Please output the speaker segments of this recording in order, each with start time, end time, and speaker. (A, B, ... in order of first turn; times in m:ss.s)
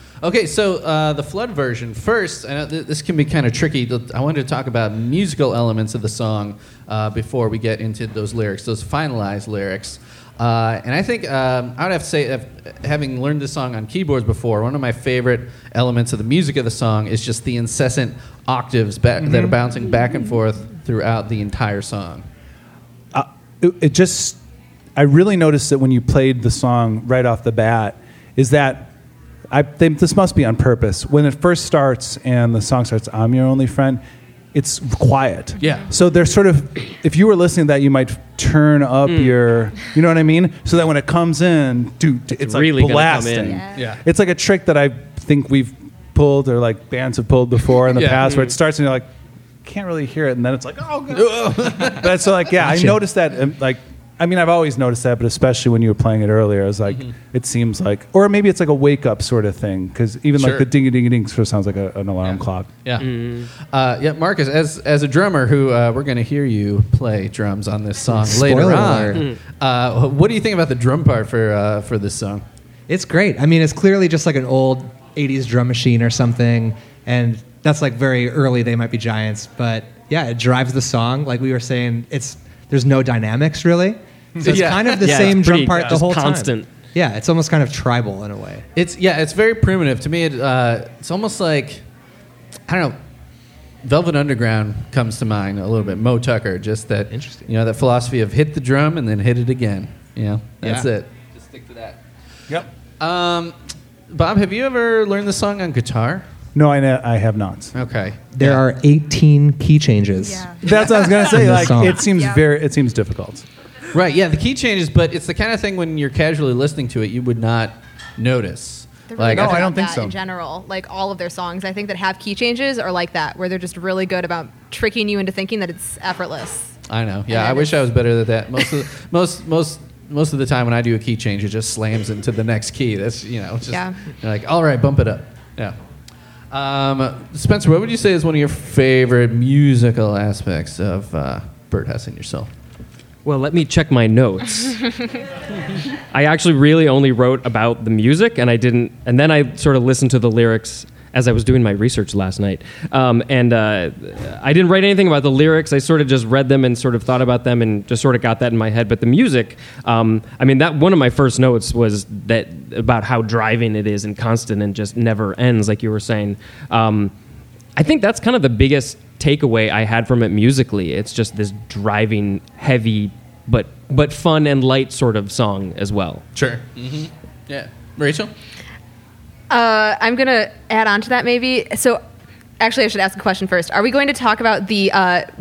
0:00.2-0:22.2 A
0:19.2-0:19.5 B
0:23.1-0:24.4 B
0:25.0-0:28.9 B
0:29.5-0:34.0 B
0:34.5-0:49.1 B
0:35.6-0:35.9 A
0:39.1-0:39.4 C
0:42.4-0:43.6 C
0:43.7-0:44.0 A
0:47.9-0:48.3 A
0:48.2-0:48.5 C
0:49.6-1:02.7 B
0:51.1-0:52.1 A
0:52.6-0:53.0 D
1:00.4-1:00.7 A
1:02.2-1:12.4 A
1:03.0-1:03.5 C
1:08.1-1:09.2 D
1:12.9-1:28.6 D
1:24.4-1:24.6 B
1:24.4-1:25.4 A
1:24.9-1:26.7 C
1:25.7-1:26.0 B
1:28.7-1:31.8 A
1:32.7-1:33.0 A
1:33.8-1:42.0 A
1:37.1-1:37.5 D
1:40.6-1:40.9 D
1:43.0-1:43.6 A
1:44.1-1:46.3 A
1:46.5-1:47.7 B
1:47.7-1:48.6 A
1:48.3-1:52.1 D
1:50.2-1:51.3 E
1:50.6-1:53.4 B
1:52.0-1:52.4 E
1:53.9-1:59.6 A
1:59.1-2:06.7 E
1:59.2-2:00.2 B
2:06.9-2:15.8 A
2:07.3-2:07.9 E
2:13.7-2:14.0 E
2:16.5-2:22.5 A
2:23.2-2:25.0 C
2:26.1-2:47.1 C
2:47.8-2:56.2 C
2:56.3-2:58.3 A
2:59.5-3:02.0 E
3:02.6-3:05.3 E